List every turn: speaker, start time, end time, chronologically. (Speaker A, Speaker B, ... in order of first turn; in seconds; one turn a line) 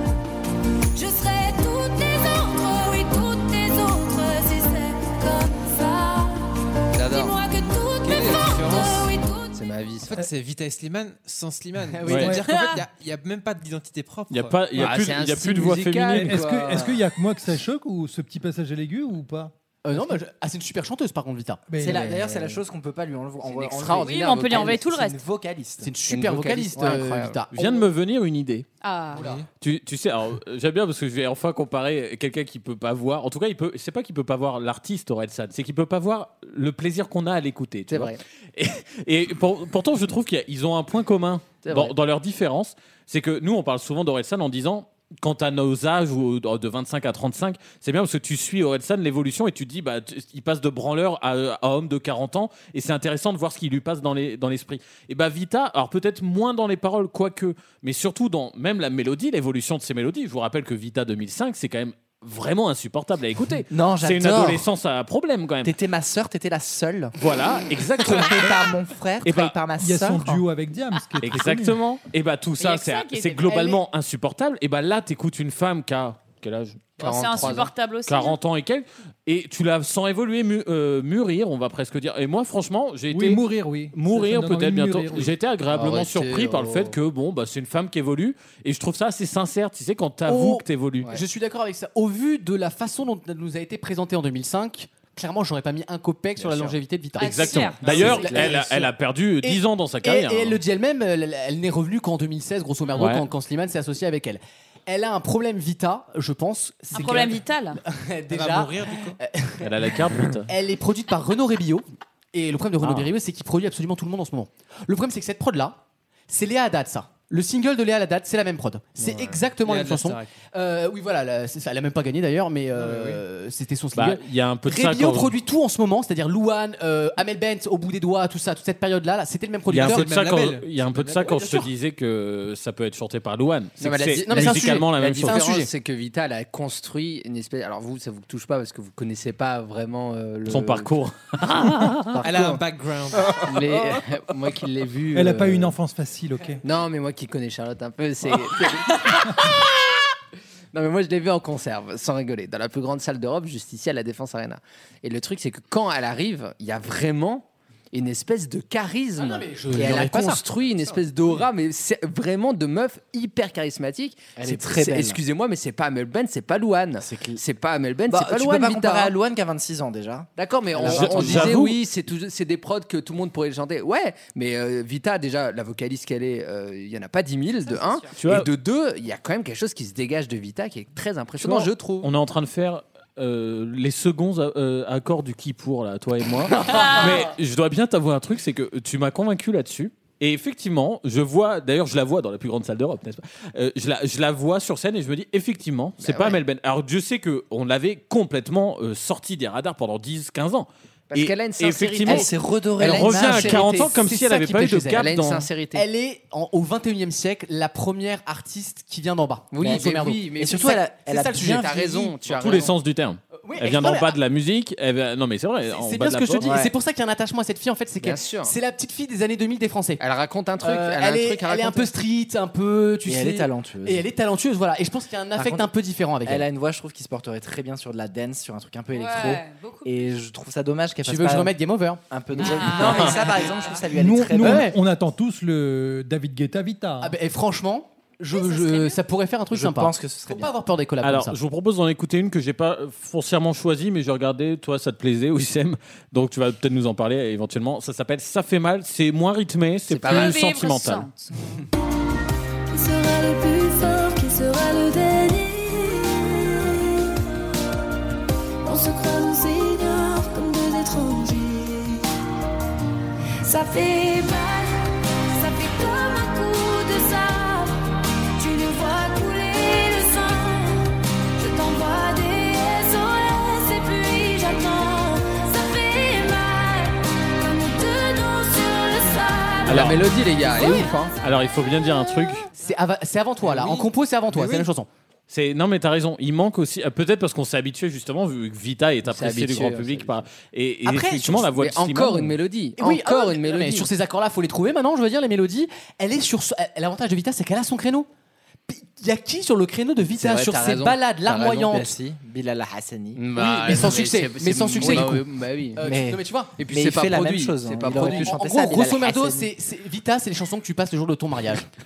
Speaker A: 0.9-9.6
Speaker B: 6.9-7.3
Speaker C: 8.0-9.1
Speaker B: 9.5-10.2
Speaker C: 10.1-14.6
Speaker D: 11.9-12.6
Speaker E: 12.1-12.3
Speaker F: 12.1-12.4
Speaker E: 14.3-16.4
Speaker B: 14.8-17.0
Speaker F: 16.1-19.5
Speaker D: 19.8-21.6
Speaker F: 21.7-22.1
Speaker G: 21.8-25.9
Speaker B: 21.8-22.6
Speaker B: 23.4-24.9
Speaker H: 24.0-25.2
Speaker D: 25.8-27.8
Speaker B: 26.1-27.4
Speaker E: 27.5-28.7
Speaker H: 28.8-29.3
Speaker D: 29.1-29.4
Speaker E: 29.6-65.8
Speaker B: 37.9-38.2
Speaker B: 41.6-41.9
Speaker G: 63.7-64.7
Speaker G: 65.6-67.1
Speaker E: 67.2-68.7
Speaker G: 68.0-70.5
Speaker E: 69.2-69.6
Speaker F: 69.8-71.8
Speaker E: 71.2-91.2
Speaker H: 72.6-73.7
Speaker D: 73.5-73.8
Speaker B: 77.0-77.7
Speaker H: 77.0-78.4
Speaker F: 83.1-85.3
Speaker B: 85.7-87.0
Speaker D: 90.3-98.9
Speaker H: 97.2-98.3
Speaker E: 97.2-100.6
Speaker D: 99.4-110.0
Speaker E: 103.0-103.3
Speaker H: 106.9-107.8
Speaker C: 108.3-109.2
Speaker E: 109.6-110.5
Speaker D: 110.5-130.1
Speaker E: 112.8-113.1
Speaker C: 119.6-120.3
Speaker C: 122.8-123.2
Speaker E: 123.9-125.3
Speaker E: 129.7-135.4
Speaker C: 129.7-131.7
Speaker B: 133.8-140.9
Speaker D: 134.2-135.7
Speaker E: 140.5-142.2
Speaker B: 142.2-142.6
Speaker C: 142.2-143.7
Speaker B: 143.2-145.8
Speaker F: 145.1-146.6
Speaker B: 146.6-149.5
Speaker B: 150.7-169.1
Speaker D: 159.2-160.4
Speaker G: 164.4-165.2
Speaker G: 167.0-167.4
Speaker G: 168.1-171.5
Speaker B: 170.4-182.1
Speaker E: 170.8-171.8
Speaker D: 171.1-171.4
Speaker E: 178.2-178.5
Speaker E: 181.4-205.5
Speaker H: 186.6-187.3
Speaker B: 196.0-196.4
Speaker B: 201.1-203.9
Speaker G: 202.1-203.5
Speaker D: 203.4-205.2
Speaker B: 204.9-205.9
Speaker D: 205.7-212.4
Speaker B: 209.5-212.8
Speaker G: 209.6-211.8
Speaker E: 212.3-216.5
Speaker D: 213.4-214.2
Speaker D: 215.7-220.0
Speaker G: 216.4-216.7
Speaker B: 218.0-218.5
Speaker B: 220.0-221.9
Speaker D: 220.6-226.5
Speaker G: 223.1-224.1
Speaker G: 225.4-225.7
Speaker G: 226.2-231.5
Speaker H: 228.9-230.0
Speaker D: 231.0-233.1
Speaker G: 232.1-234.7
Speaker H: 232.3-233.9
Speaker F: 233.9-237.1
Speaker D: 234.4-234.8
Speaker D: 237.0-241.4
Speaker H: 238.3-239.0
Speaker G: 239.5-240.5
Speaker E: 241.0-251.1
Speaker B: 249.9-250.3
Speaker H: 250.0-251.3
Speaker A: 252.7-257.1
Speaker A: 258.6-262.1
Speaker A: 263.4-267.9
Speaker A: 268.4-279.9
Speaker B: 279.7-281.1
Speaker E: 279.7-280.1
Speaker E: 281.2-282.5
Speaker D: 282.6-284.9
Speaker B: 283.4-283.9
Speaker E: 285.3-292.4
Speaker B: 289.1-290.2
Speaker B: 290.9-293.9
Speaker D: 292.8-298.1
Speaker D: 298.7-301.9
Speaker B: 300.2-301.8
Speaker G: 301.3-303.2
Speaker B: 303.1-305.8
Speaker D: 303.4-305.2
Speaker G: 304.8-305.2
Speaker D: 305.8-306.6
Speaker G: 305.8-309.5
Speaker B: 306.6-308.4
Speaker D: 307.8-311.7